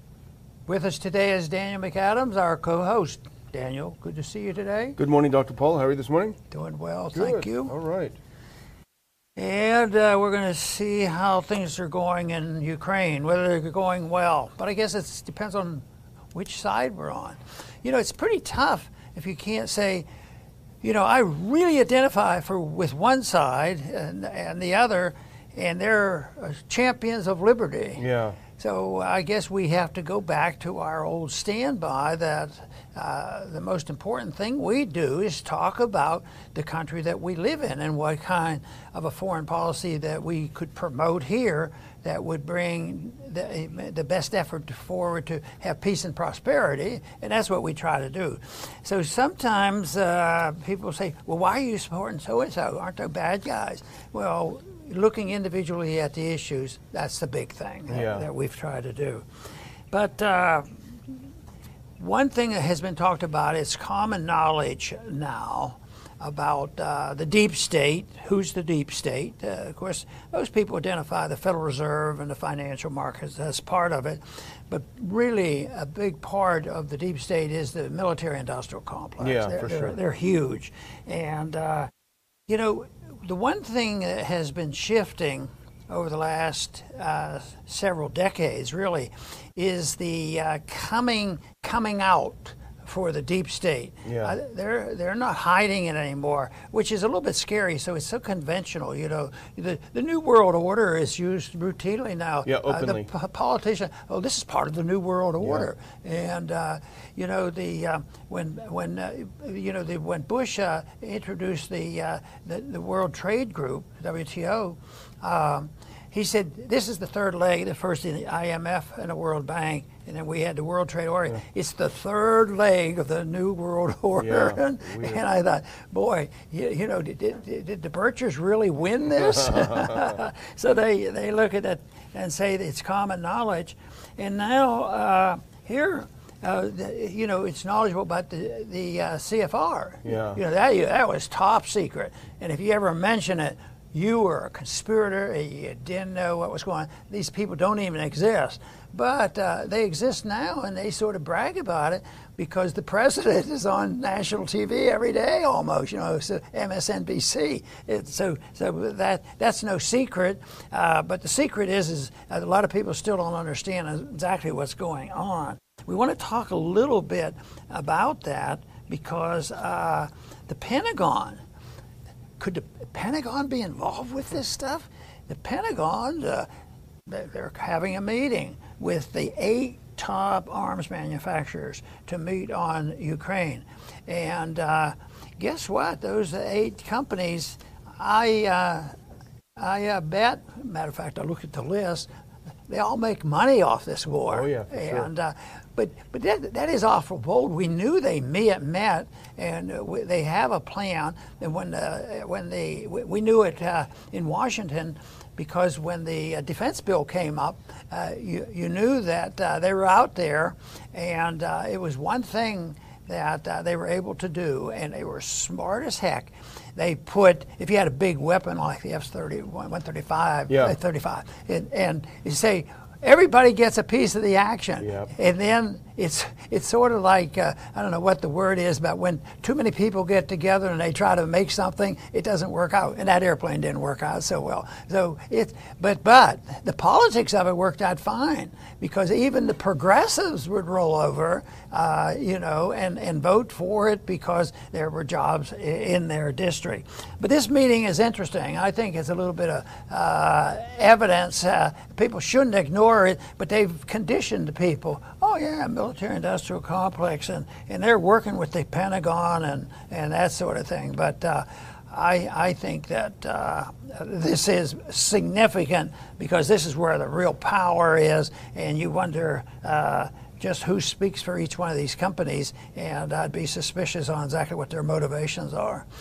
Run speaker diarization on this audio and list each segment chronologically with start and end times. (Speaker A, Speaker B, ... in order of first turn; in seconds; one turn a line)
Speaker A: 0.7-5.0
Speaker B: 5.0-6.4
Speaker A: 6.5-7.7
Speaker B: 7.2-8.2
Speaker A: 9.4-15.8
Speaker A: 16.3-20.1
Speaker A: 20.8-28.0
Speaker B: 28.0-28.4
Speaker A: 28.6-59.2
Speaker B: 57.9-58.2
Speaker A: 59.9-60.7
Speaker A: 62.0-81.9
Speaker B: 79.2-80.0
Speaker A: 82.5-171.4
Speaker B: 94.0-94.3
Speaker B: 102.5-103.1
Speaker B: 105.4-105.7
Speaker B: 124.2-125.2
Speaker B: 129.4-130.1
Speaker B: 140.1-140.4
Speaker A: 172.4-176.5
Speaker A: 177.1-188.9
Speaker A: 189.6-192.1
Speaker A: 192.7-275.9
Speaker B: 194.3-195.1
Speaker B: 220.5-220.7
Speaker B: 224.8-225.1